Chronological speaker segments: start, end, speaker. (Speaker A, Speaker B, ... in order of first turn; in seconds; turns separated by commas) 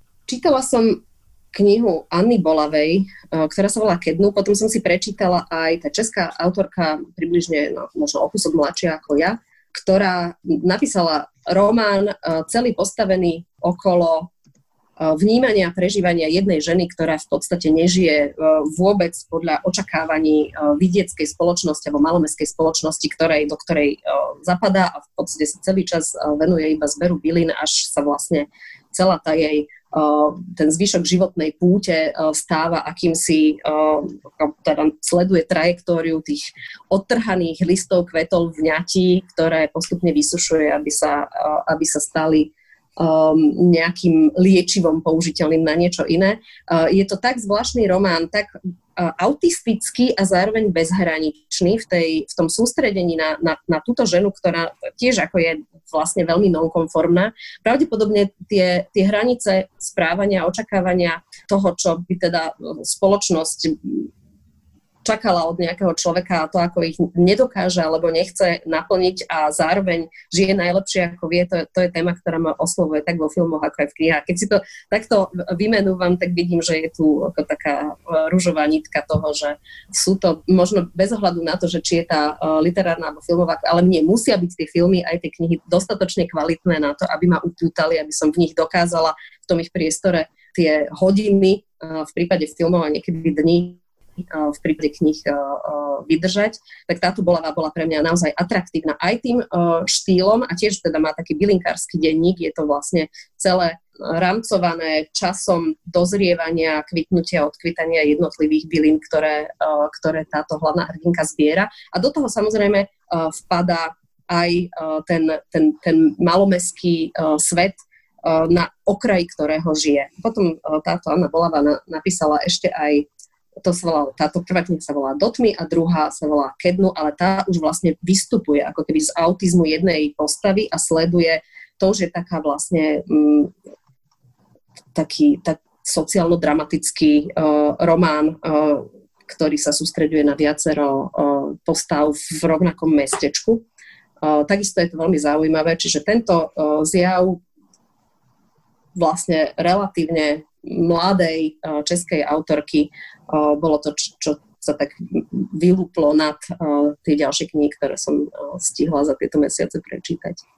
Speaker A: 0.3-1.0, Speaker A: 1.5-14.3, Speaker A: 15.0-64.1, Speaker A: 65.0-123.1, Speaker A: 123.6-133.5, Speaker A: 134.9-143.6, Speaker A: 144.2-147.4, Speaker A: 149.0-160.4